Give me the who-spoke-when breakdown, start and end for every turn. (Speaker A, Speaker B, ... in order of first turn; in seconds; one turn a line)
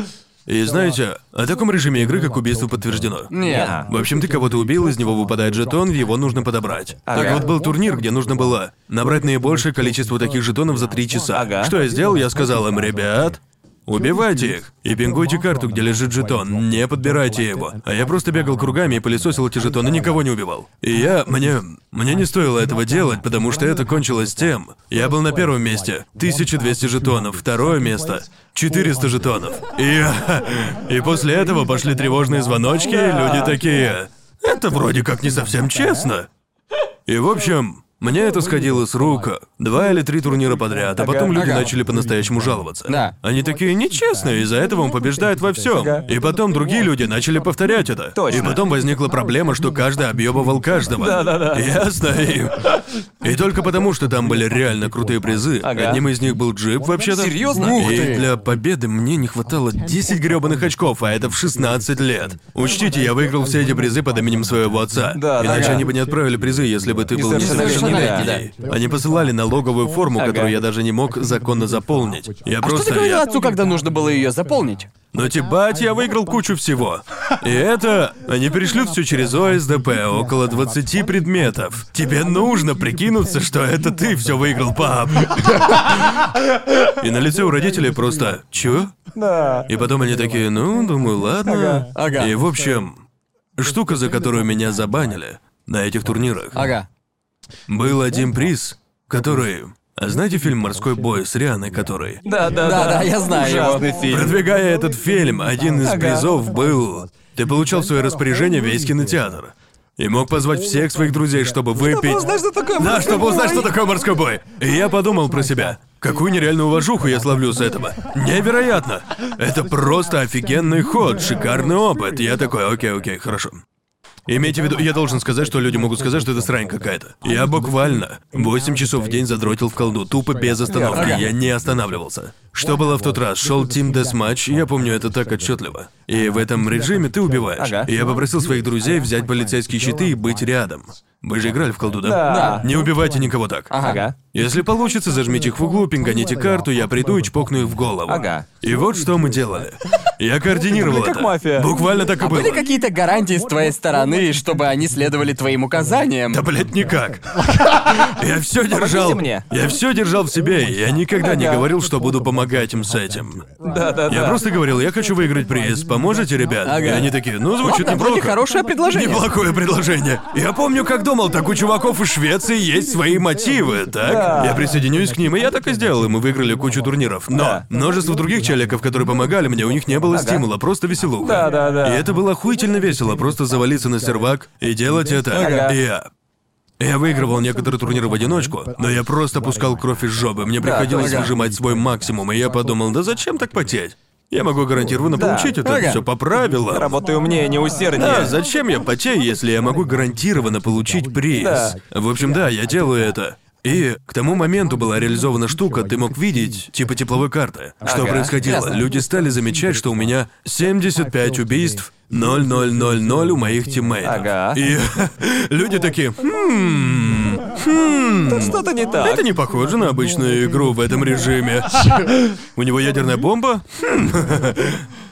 Speaker A: 0.5-36.3
Speaker B: 3.3-3.7
Speaker C: 3.4-3.9
Speaker C: 7.1-7.5
Speaker B: 7.1-7.5
Speaker C: 11.3-11.7
Speaker C: 32.8-33.5
Speaker A: 37.1-73.2
Speaker C: 41.0-41.5
Speaker B: 41.3-41.7
Speaker B: 42.9-43.1
Speaker C: 45.8-46.0
Speaker C: 48.1-48.6
Speaker C: 51.0-51.8
Speaker C: 55.6-56.0
Speaker C: 57.1-58.0
Speaker B: 57.6-58.2
Speaker C: 65.1-65.8
Speaker B: 65.5-65.8
Speaker C: 67.1-68.3
Speaker B: 67.4-68.4
Speaker C: 70.2-70.5
Speaker B: 72.6-74.9
Speaker A: 75.1-88.9
Speaker C: 89.1-89.7
Speaker A: 89.7-93.0
Speaker C: 91.4-91.9
Speaker B: 91.9-92.3
Speaker A: 93.5-96.7
Speaker B: 96.5-96.8
Speaker A: 97.7-102.2
Speaker C: 102.2-104.4
Speaker B: 102.5-103.9
Speaker A: 104.1-112.2
Speaker C: 105.8-106.2
Speaker C: 111.8-113.7
Speaker A: 112.8-123.6
Speaker A: 124.3-152.7
Speaker C: 130.7-131.2
Speaker B: 130.9-131.2
Speaker C: 137.6-137.9
Speaker C: 142.0-142.7
Speaker B: 142.2-142.6
Speaker B: 143.7-144.0
Speaker C: 143.8-144.1
Speaker C: 148.1-148.4
Speaker C: 150.7-151.7
Speaker B: 152.2-156.4
Speaker A: 156.3-163.4
Speaker C: 158.7-159.4
Speaker C: 161.2-161.7
Speaker C: 163.6-164.4
Speaker A: 164.1-168.4
Speaker B: 166.6-169.3
Speaker A: 168.9-186.1
Speaker C: 174.0-174.6
Speaker C: 177.3-177.6
Speaker C: 180.1-180.4
Speaker C: 181.2-182.1
Speaker C: 185.3-185.8
Speaker B: 185.3-185.7
Speaker A: 186.8-197.0
Speaker C: 190.6-191.2
Speaker B: 190.9-191.3
Speaker C: 195.1-195.6
Speaker B: 195.6-196.0
Speaker C: 196.7-198.3
Speaker A: 197.9-224.8
Speaker C: 201.4-201.8
Speaker C: 207.8-208.3
Speaker B: 208.4-208.8
Speaker C: 214.0-214.6
Speaker C: 218.2-219.2